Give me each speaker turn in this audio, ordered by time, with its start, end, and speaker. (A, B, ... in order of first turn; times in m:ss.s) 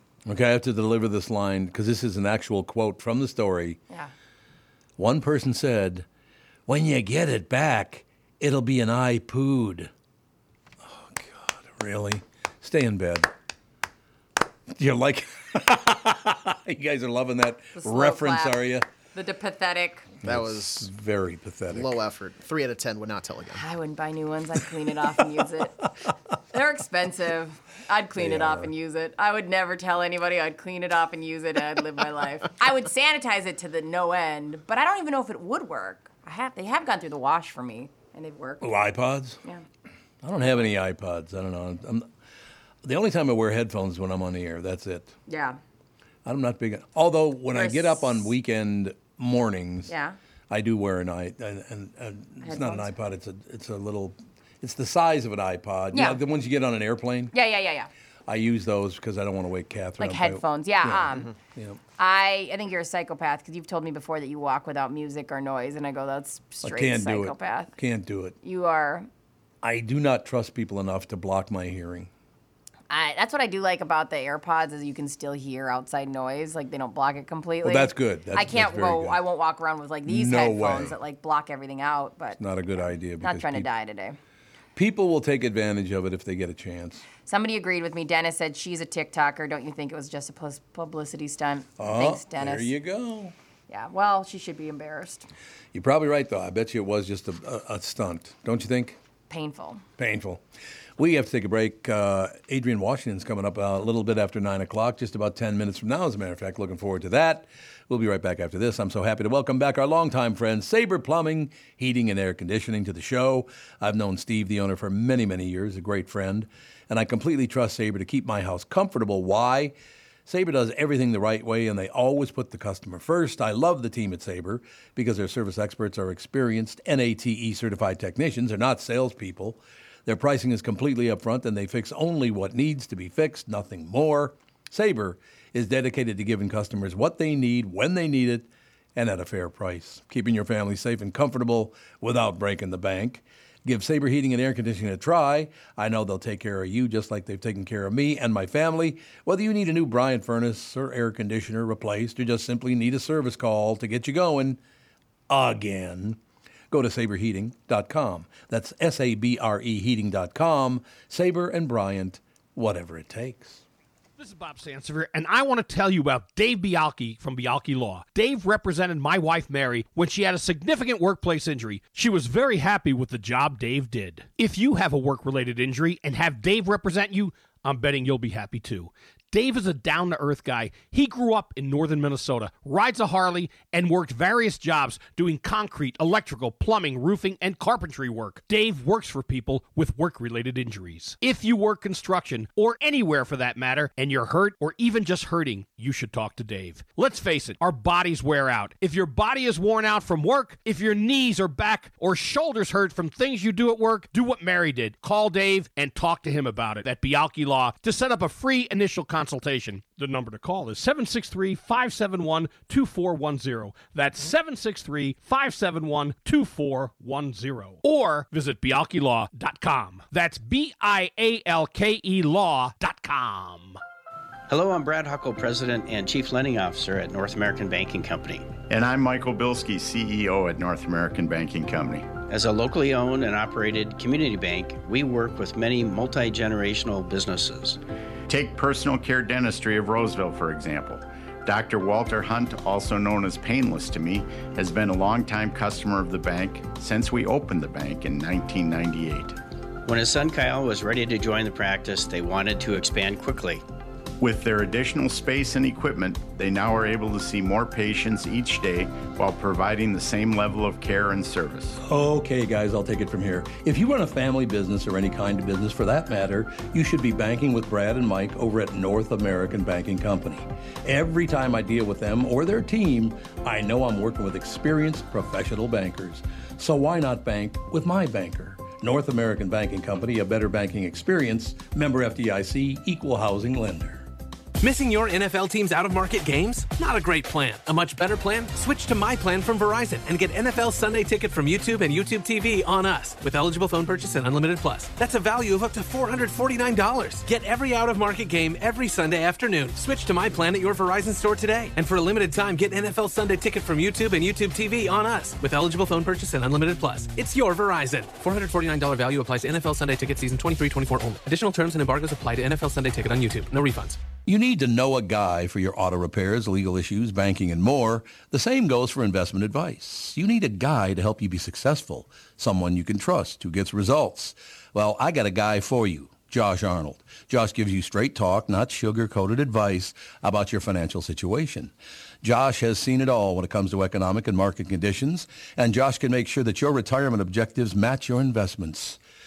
0:00.2-0:03.8 A
0:05.0-0:06.0 A
0:06.7-0:09.9 A
0:10.8-0:13.3 A
0:14.7-0:18.9 A
0:17.7-0:18.6 B
0:19.1-0:20.1 B
0:20.2-0:22.0 A
0:20.2-0:20.9 C
0:21.7-0:23.6 C
0:23.5-0:25.9 B
0:26.5-0:38.7 B
0:28.2-0:28.7 A
0:38.6-0:39.4 A
0:40.2-0:42.1 A
0:42.8-0:45.1 A
0:45.3-0:45.6 B
0:46.2-0:49.9 A
0:47.5-0:48.3 B
0:49.9-0:50.2 B
0:50.5-0:57.3 A
0:52.4-0:52.9 B
0:55.9-0:56.2 B
0:57.3-0:57.9 B
0:58.3-1:01.8 A
1:00.0-1:01.3 B
1:02.0-1:07.7 B
1:06.6-1:08.4 A
1:08.4-1:09.1 B
1:09.6-1:12.1 A
1:12.9-1:24.2 B
1:17.6-1:19.2 A
1:20.1-1:21.0 A
1:22.4-1:23.7 A
1:24.7-1:27.0 A
1:27.2-1:32.7 B
1:31.8-1:33.3 A
1:33.7-1:35.3 B
1:35.7-1:39.0 A
1:39.3-1:39.8 B
1:40.0-1:40.4 A
1:41.0-1:59.7 A
2:00.2-2:34.6 A
2:35.3-2:36.2 A
2:36.7-2:43.6 A
2:44.2-3:43.8 D
3:44.5-3:48.5 E
3:48.7-3:52.2 F
3:52.3-3:57.8 E
3:58.3-4:09.4 F
4:09.8-4:13.6 E
4:14.2-4:21.8 F
4:21.8-4:44.1 A
4:44.6-5:14.0 G
5:14.2-5:39.0 A